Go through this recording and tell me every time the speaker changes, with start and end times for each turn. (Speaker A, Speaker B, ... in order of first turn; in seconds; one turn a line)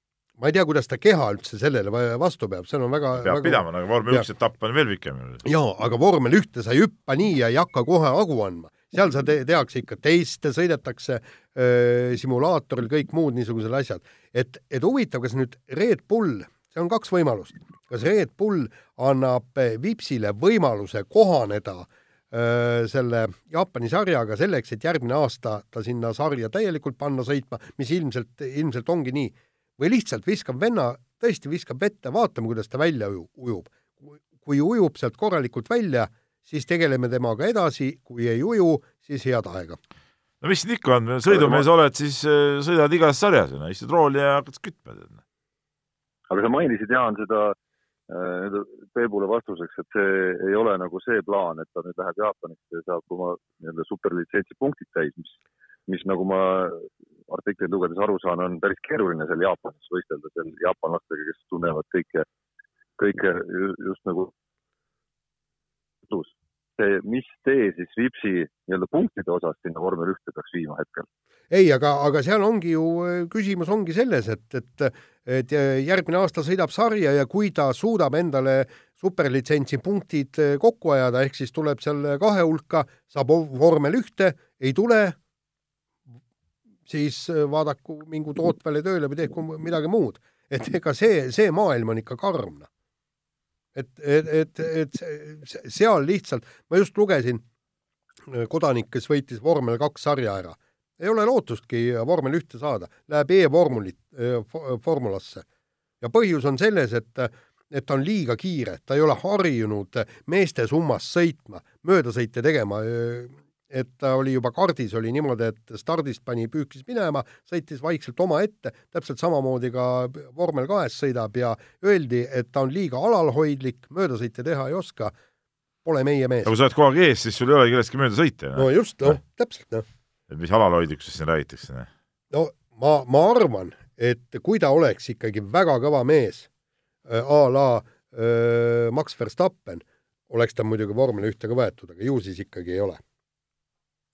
Speaker A: 0.4-4.2
Speaker B: 3.2-5.4
Speaker A: 5.4-39.8
Speaker B: 40.4-45.2
Speaker C: 46.3-47.5
Speaker C: 48.1-62.2
Speaker C: 63.0-64.3
Speaker C: 66.1-71.1
Speaker A: 71.5-85.2
Speaker A: 86.9-92.7
Speaker A: 93.7-97.4
Speaker A: 98.2-105.4
Speaker A: 106.0-125.1
Speaker A: 125.8-126.5
Speaker B: 126.4-129.2
Speaker A: 128.6-129.8
Speaker B: 130.3-131.9
Speaker A: 132.3-136.5
Speaker A: 137.1-143.0